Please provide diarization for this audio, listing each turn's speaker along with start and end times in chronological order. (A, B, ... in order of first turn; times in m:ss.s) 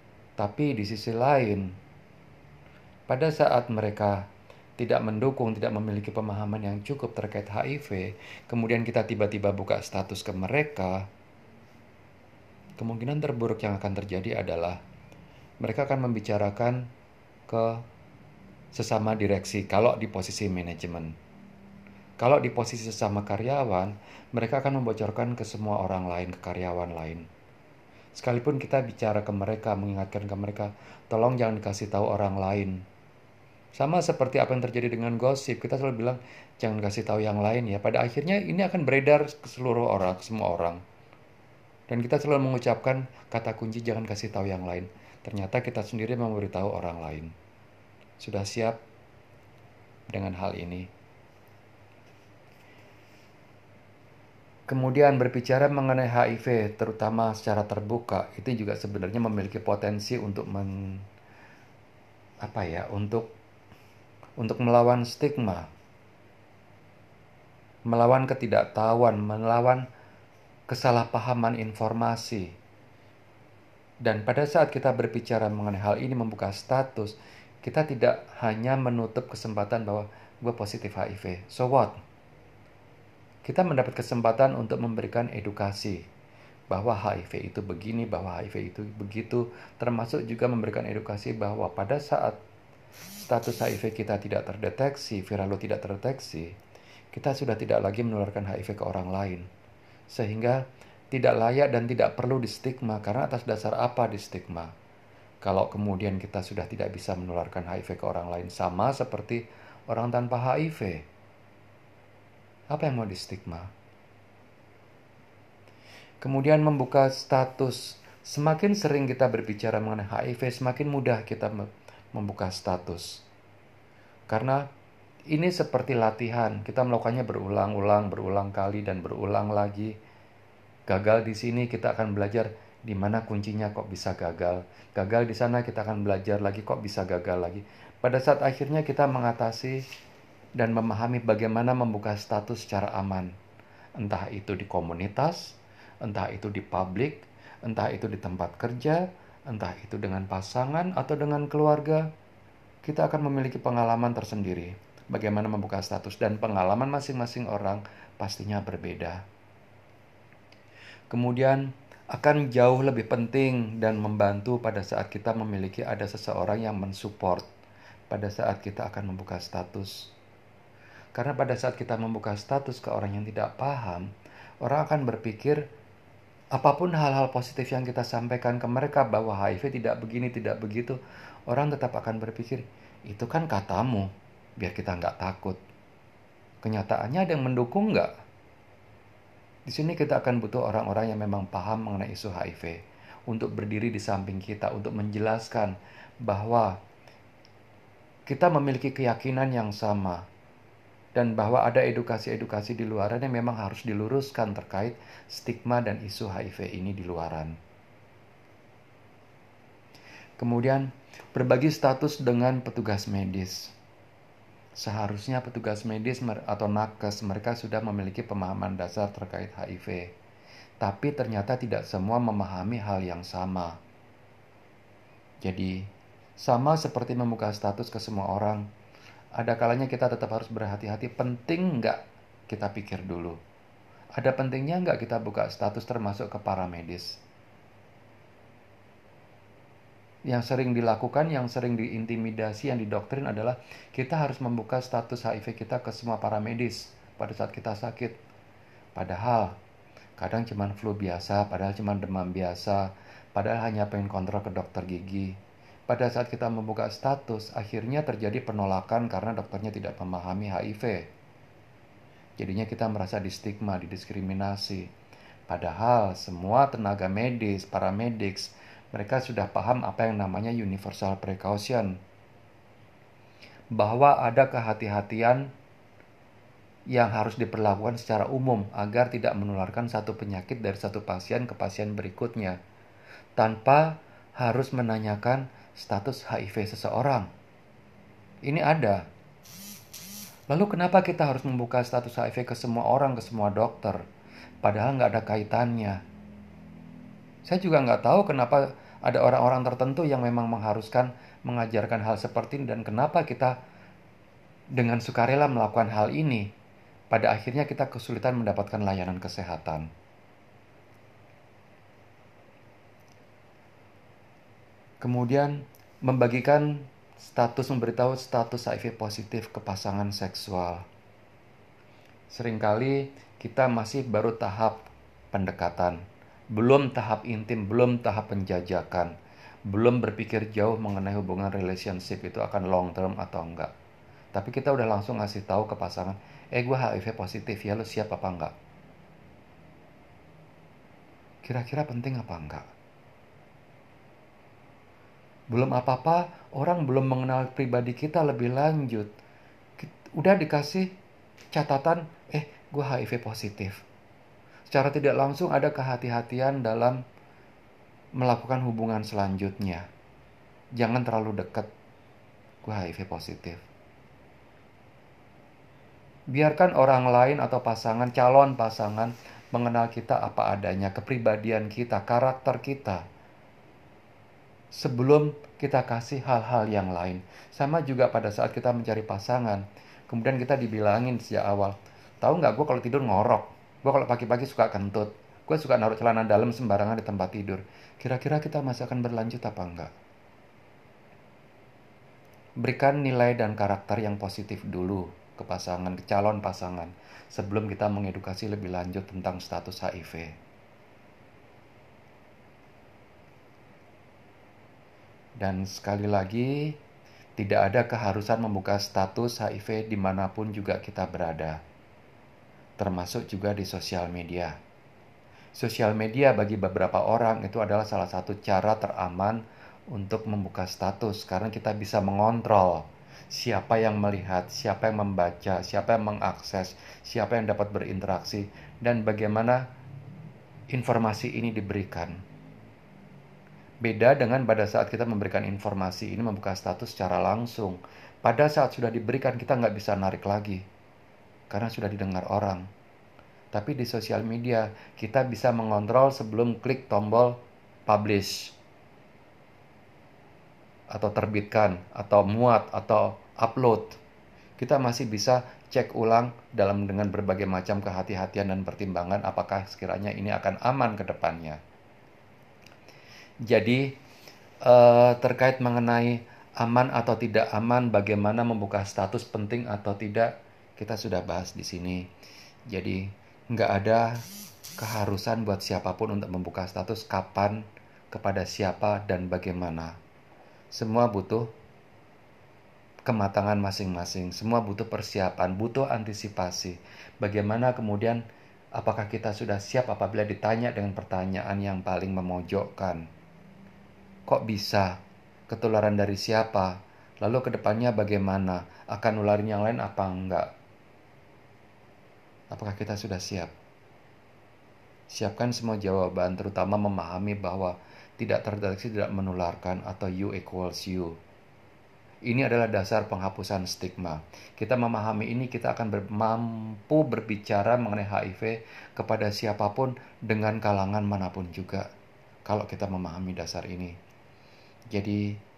0:00.4-0:01.7 A
0:03.1-0:04.2 A
0:04.8-0:11.0 A
0:12.8-0:14.8 A
0:15.6-0:16.9 A
0:17.5-0:17.8 A
0:18.7-0:21.1 A
0:22.2-0:27.2 A
0:28.2-0:32.8 A
0:33.8-0:40.8 A
0:41.9-0:47.3 A
0:48.2-0:48.8 A
0:50.1-0:50.9 A
0:54.7-1:01.0 A
1:02.4-1:03.3 A
1:04.4-1:05.7 A
1:07.9-1:09.8 A
1:10.7-1:12.5 A
1:14.0-1:21.9 A
1:23.4-1:26.0 A
1:26.7-1:32.4 A
1:33.2-1:36.5 A
1:37.1-1:39.4 A
1:40.1-1:40.6 A
1:41.1-1:44.7 A
1:45.4-1:51.0 A
1:52.7-1:53.7 A
1:56.2-2:03.2 A
2:04.3-2:04.6 A
2:05.3-2:09.9 A
2:10.9-2:19.8 A
2:20.6-2:23.3 A
2:24.0-2:32.1 A
2:32.8-2:39.2 A
2:41.1-2:47.4 A
2:48.1-2:50.1 A
2:51.1-2:54.1 A
2:54.6-2:55.6 A
2:56.5-3:05.6 A
3:06.6-3:08.1 A
3:09.7-3:16.8 A
3:18.3-3:20.2 A
3:21.1-3:27.5 A
3:30.4-3:33.7 A
3:34.8-3:40.1 A
3:40.8-3:43.8 A
3:45.4-3:45.8 A
3:46.4-3:48.6 A
3:49.4-3:53.4 A
3:54.2-3:57.2 A
4:00.3-4:08.2 A
4:08.9-4:09.5 A
4:10.2-4:15.3 A
4:15.9-4:21.1 A
4:22.4-4:24.9 A
4:25.5-4:32.0 A
4:33.7-4:35.5 A
4:36.9-4:42.6 A
4:43.4-4:47.3 A
4:48.4-4:49.0 A
4:50.5-4:54.0 A
4:54.6-4:56.0 A
4:57.4-5:03.5 A
5:04.8-5:06.5 A
5:07.1-5:09.9 A
5:15.0-5:20.8 A
5:22.3-5:24.8 A
5:25.3-5:26.0 A
5:26.5-5:29.1 A
5:29.7-5:33.7 A
5:34.3-5:38.5 A
5:41.4-5:42.6 A
5:45.5-5:49.1 A
5:49.8-5:50.9 A
5:51.5-5:53.8 A
5:54.7-5:57.0 A
5:58.2-5:59.8 A
6:00.8-6:01.7 A
6:02.6-6:03.6 A
6:06.3-6:13.0 A
6:14.7-6:29.9 A
6:32.6-6:40.3 A
6:45.4-6:46.7 A
6:47.4-6:51.6 A
6:52.8-6:54.5 A
6:55.6-6:59.4 A
6:59.9-7:09.6 A
7:10.7-7:12.2 A
7:13.8-7:20.6 A
7:21.5-7:22.6 A
7:23.5-7:27.4 A
7:27.9-7:28.5 A
7:30.9-7:34.0 A
7:34.6-7:41.6 A
7:43.5-7:43.9 A
7:44.6-7:52.0 A
7:52.7-7:54.2 A
7:54.8-8:00.0 A
8:00.7-8:01.5 A
8:03.0-8:08.2 A
8:08.8-8:13.0 A
8:14.3-8:15.0 A
8:15.5-8:20.5 A
8:22.5-8:23.5 A
8:25.1-8:31.2 A
8:32.3-8:41.8 A
8:42.5-8:43.9 A
8:44.9-8:45.4 A